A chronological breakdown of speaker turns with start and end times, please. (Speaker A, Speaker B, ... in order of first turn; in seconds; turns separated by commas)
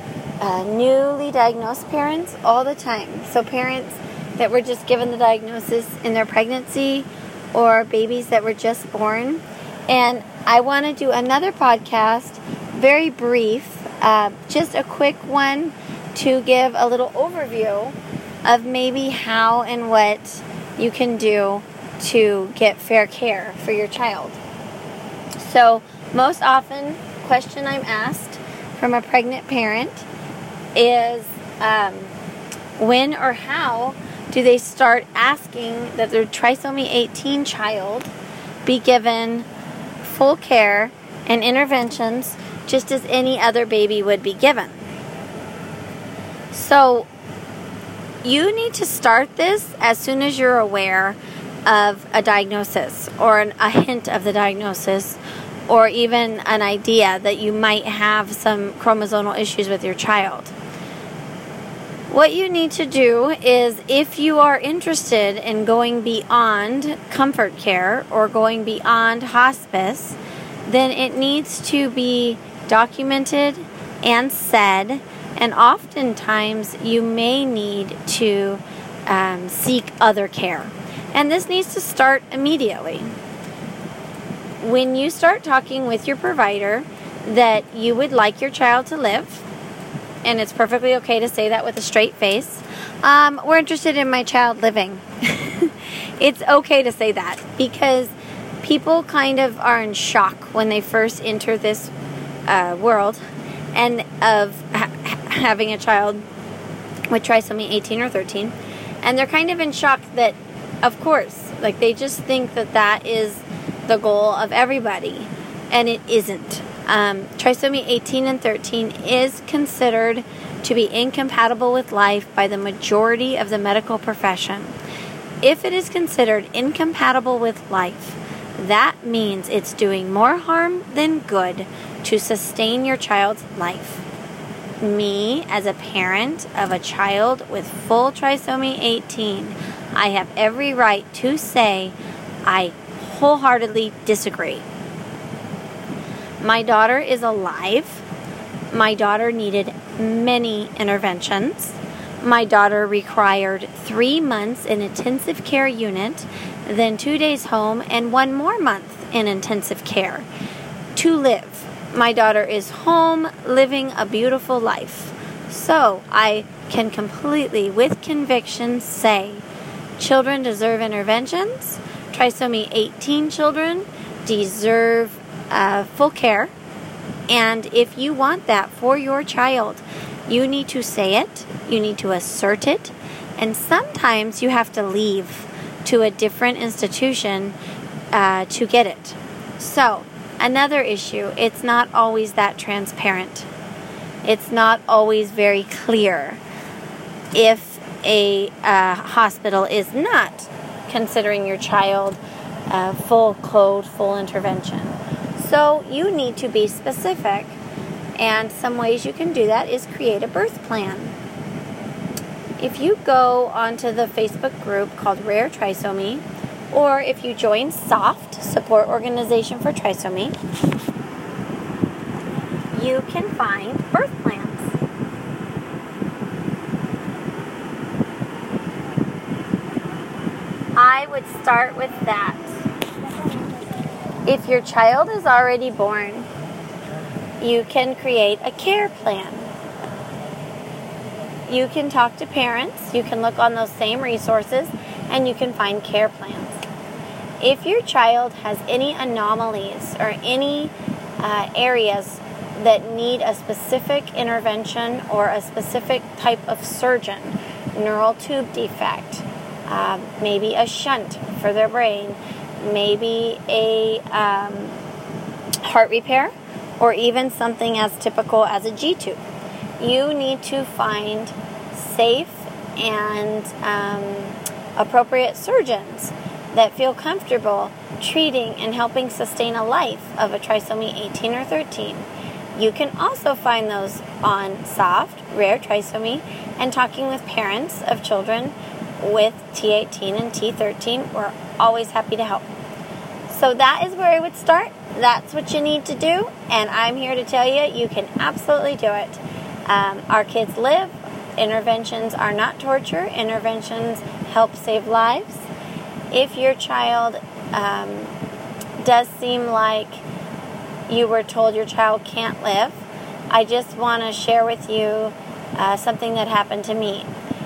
Speaker A: 0.4-24.4, Speaker A: 25.4-30.1, Speaker A: 30.7-32.1, Speaker A: 32.8-38.1, Speaker A: 38.6-39.5, Speaker A: 40.0-44.9, Speaker A: 46.5-47.1, Speaker A: 48.2-60.5, Speaker A: 62.1-83.1, Speaker A: 84.6-89.4, Speaker A: 90.2-101.9, Speaker A: 102.5-103.2, Speaker A: 103.7-106.2, Speaker A: 107.1-124.8, Speaker A: 125.4-134.0, Speaker A: 134.8-144.6, Speaker A: 146.4-148.0, Speaker A: 148.7-160.2, Speaker A: 160.9-169.4, Speaker A: 170.0-176.5, Speaker A: 177.3-187.5, Speaker A: 188.1-193.5, Speaker A: 194.2-196.4, Speaker A: 197.3-207.6, Speaker A: 208.2-211.1, Speaker A: 212.6-220.3, Speaker A: 222.7-224.8, Speaker A: 230.8-232.6, Speaker A: 234.2-236.3, Speaker A: 237.4-239.5, Speaker A: 241.5-246.6, Speaker A: 247.4-264.8, Speaker A: 265.6-269.2, Speaker A: 269.8-292.4, Speaker A: 293.3-305.5, Speaker A: 306.1-308.1, Speaker A: 308.8-310.0, Speaker A: 310.9-312.8, Speaker A: 313.3-317.1